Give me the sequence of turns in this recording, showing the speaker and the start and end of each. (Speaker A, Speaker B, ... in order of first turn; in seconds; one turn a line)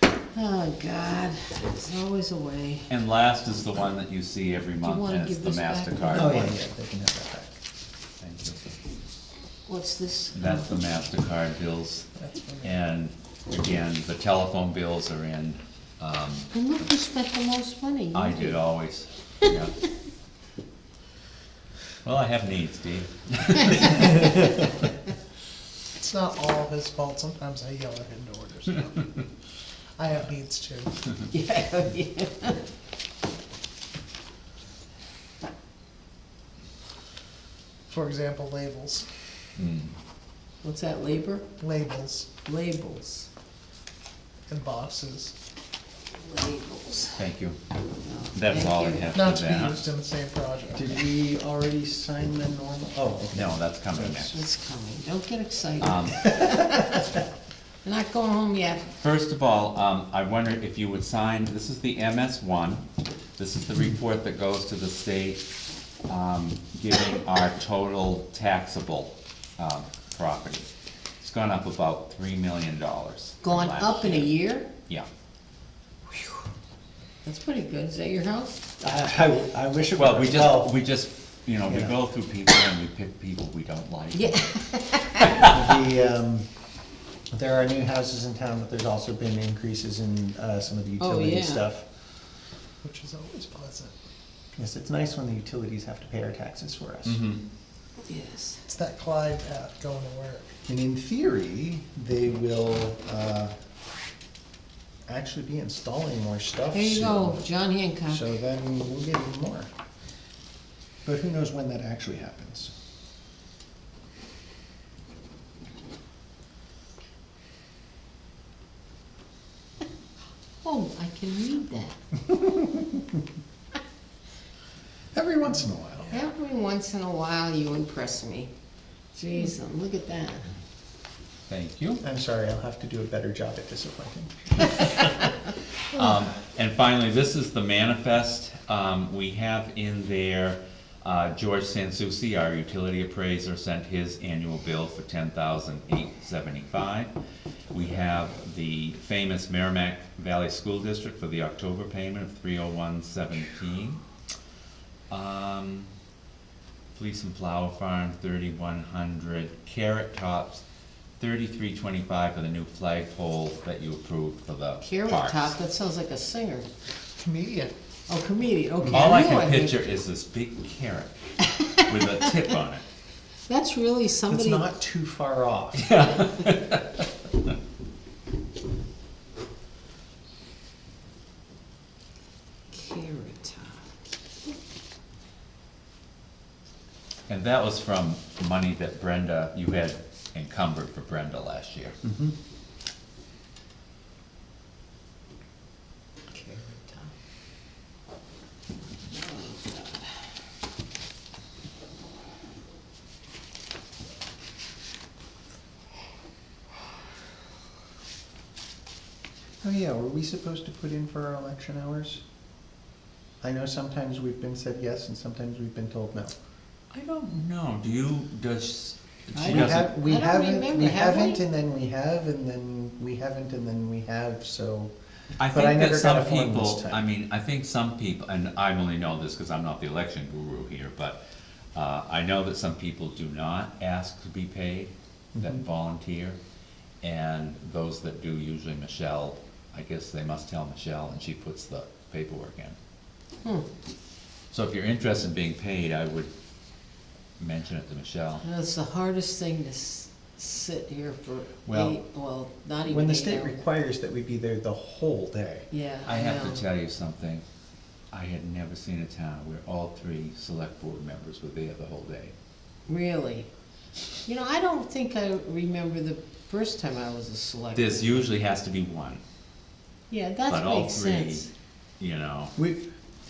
Speaker A: 0.3-2.9
Speaker B: 2.9-6.5
Speaker A: 4.8-6.5
Speaker C: 6.1-7.6
Speaker B: 8.2-8.6
Speaker A: 9.7-10.7
Speaker B: 10.3-12.1
Speaker D: 12.2-12.7
Speaker B: 12.6-16.5
Speaker A: 16.5-18.6
Speaker B: 18.1-19.7
Speaker B: 22.0-24.2
Speaker A: 24.0-24.5
Speaker D: 25.9-29.2
Speaker D: 30.0-31.0
Speaker A: 31.3-32.6
Speaker D: 37.9-39.1
Speaker B: 39.6-40.0
Speaker A: 40.6-41.5
Speaker D: 41.6-42.3
Speaker A: 42.4-43.3
Speaker D: 44.5-45.3
Speaker A: 46.1-47.2
Speaker B: 47.1-47.6
Speaker A: 48.0-49.1
Speaker B: 48.3-49.8
Speaker D: 49.1-51.0
Speaker C: 50.7-54.4
Speaker B: 53.3-54.4
Speaker A: 54.3-57.0
Speaker B: 55.8-56.4
Speaker A: 57.8-58.9
Speaker B: 59.0-62.8
Speaker B: 63.4-65.4
Speaker B: 66.1-70.7
Speaker B: 71.2-74.3
Speaker A: 73.4-74.7
Speaker A: 77.2-79.2
Speaker C: 78.8-80.7
Speaker B: 80.0-84.4
Speaker C: 81.7-82.0
Speaker A: 84.1-85.5
Speaker C: 85.4-86.5
Speaker C: 87.3-91.8
Speaker A: 91.0-91.7
Speaker D: 92.8-93.9
Speaker C: 94.5-97.2
Speaker B: 97.0-97.4
Speaker A: 98.0-98.6
Speaker D: 98.7-100.5
Speaker C: 100.7-103.5
Speaker C: 105.1-107.4
Speaker A: 106.7-108.3
Speaker C: 108.1-109.7
Speaker C: 111.0-112.7
Speaker A: 120.6-122.0
Speaker C: 122.3-123.0
Speaker C: 125.1-126.2
Speaker A: 126.1-128.5
Speaker A: 129.1-130.5
Speaker B: 131.5-132.0
Speaker C: 132.0-134.9
Speaker B: 135.9-147.1
Speaker B: 147.7-154.0
Speaker B: 155.1-155.9
Speaker B: 156.9-160.6
Speaker B: 161.2-165.5
Speaker A: 164.8-166.7
Speaker D: 167.2-167.7
Speaker A: 168.1-169.8
Speaker B: 168.9-171.2
Speaker A: 171.4-172.3
Speaker B: 171.8-172.8
Speaker A: 173.5-174.7
Speaker C: 174.3-175.9
Speaker B: 175.8-177.5
Speaker A: 182.7-183.9
Speaker B: 187.3-192.0
Speaker C: 192.0-192.3
Speaker A: 196.3-197.1
Speaker A: 199.1-200.1
Speaker C: 209.6-212.2
Speaker C: 213.4-216.3
Speaker B: 216.9-219.9
Speaker A: 219.3-221.4
Speaker C: 219.4-224.9
Speaker B: 225.4-231.2
Speaker C: 225.5-227.0
Speaker B: 231.7-236.4
Speaker B: 237.0-242.8
Speaker B: 244.5-246.3
Speaker B: 247.4-248.4
Speaker A: 248.4-253.6
Speaker B: 251.7-251.9
Speaker C: 252.8-255.7
Speaker A: 255.7-256.6
Speaker B: 256.0-257.4
Speaker B: 258.1-262.3
Speaker A: 262.9-263.5
Speaker A: 264.2-268.3
Speaker B: 267.7-269.2
Speaker A: 270.1-271.5
Speaker B: 270.5-271.5
Speaker B: 272.0-272.5
Speaker C: 272.6-272.8